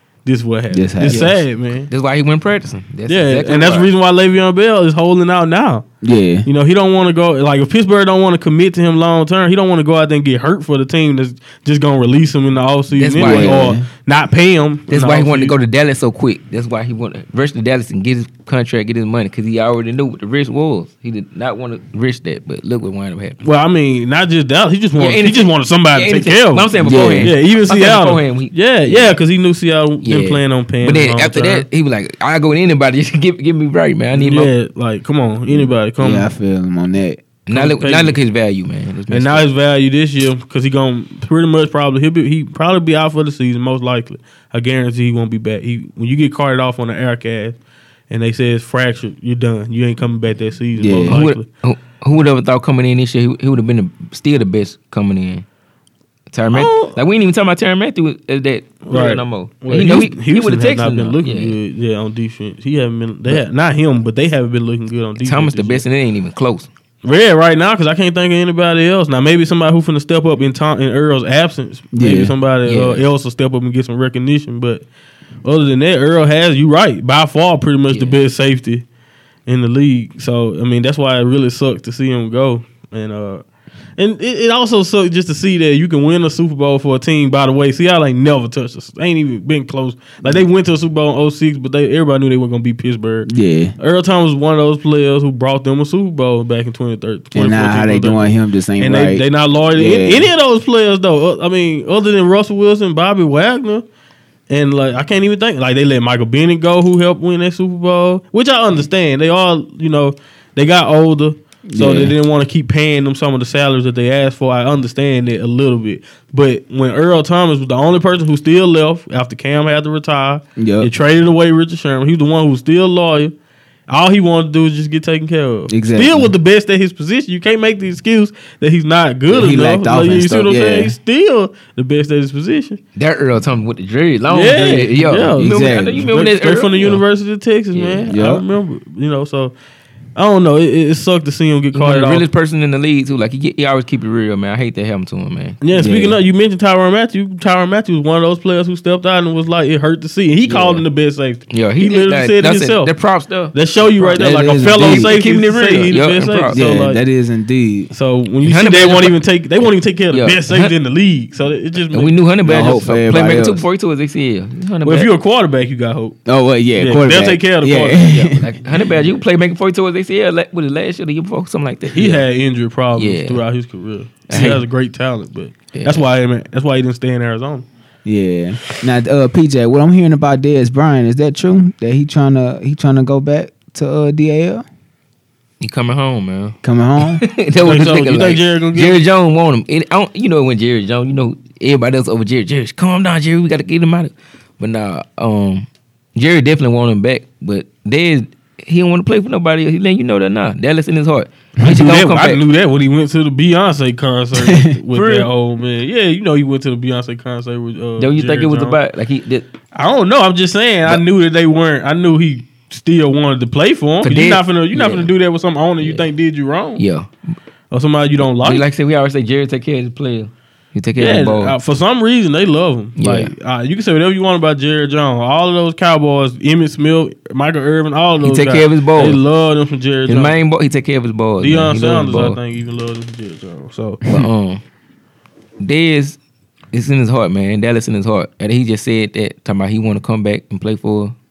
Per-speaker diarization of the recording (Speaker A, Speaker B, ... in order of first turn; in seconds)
Speaker A: 0.2-1.9, 3.1-5.8, 6.4-15.6, 23.4-26.7, 27.2-31.6, 34.1-36.3, 37.5-38.2, 39.1-47.6, 48.1-51.5, 56.5-57.0, 58.9-65.8, 67.0-74.8, 75.4-78.8, 79.5-83.4, 84.0-103.8, 104.5-123.3, 123.9-132.8, 134.3-139.5, 140.2-142.2, 145.6-152.9, 153.5-157.0, 157.9-162.2, 164.8-166.2, 166.7-168.1, 171.9-177.7, 187.6-189.0, 201.6-208.8, 209.7-216.8, 217.7-218.6, 221.0-230.3, 231.4-234.0
Speaker B: 0.7-1.2, 6.0-6.5, 13.2-13.8, 26.8-27.3, 36.0-37.2, 50.8-51.2, 71.9-72.3, 93.3-93.7, 97.3-100.3, 111.7-112.1, 120.6-120.9, 125.7-126.3, 129.3-130.9, 135.4-136.1, 138.1-138.4, 145.7-146.2, 154.2-155.1, 156.5-157.9, 162.4-163.6, 166.2-168.4, 178.0-184.6, 186.6-187.2, 204.3-204.7
Speaker C: 1.0-3.9, 12.9-13.7, 14.9-23.4, 25.0-29.1, 30.0-34.5, 37.5-39.4, 51.1-55.4, 56.3-61.6, 65.2-66.7, 72.6-73.0, 77.9-78.2, 132.9-137.0, 137.7-138.1, 141.7-145.6, 150.4-150.8, 151.5-156.6, 158.4-159.2, 160.1-160.7, 161.9-165.1, 168.0-172.2, 172.9-173.4, 174.3-174.6, 175.7-176.0, 185.6-186.6, 187.1-202.4, 204.9-205.3, 208.0-209.4, 214.0-215.1, 215.8-216.1, 216.8-217.1, 218.4-221.5, 223.0-223.3, 228.2-229.2, 230.1-232.4, 234.1-234.6, 235.6-236.2, 236.7-241.1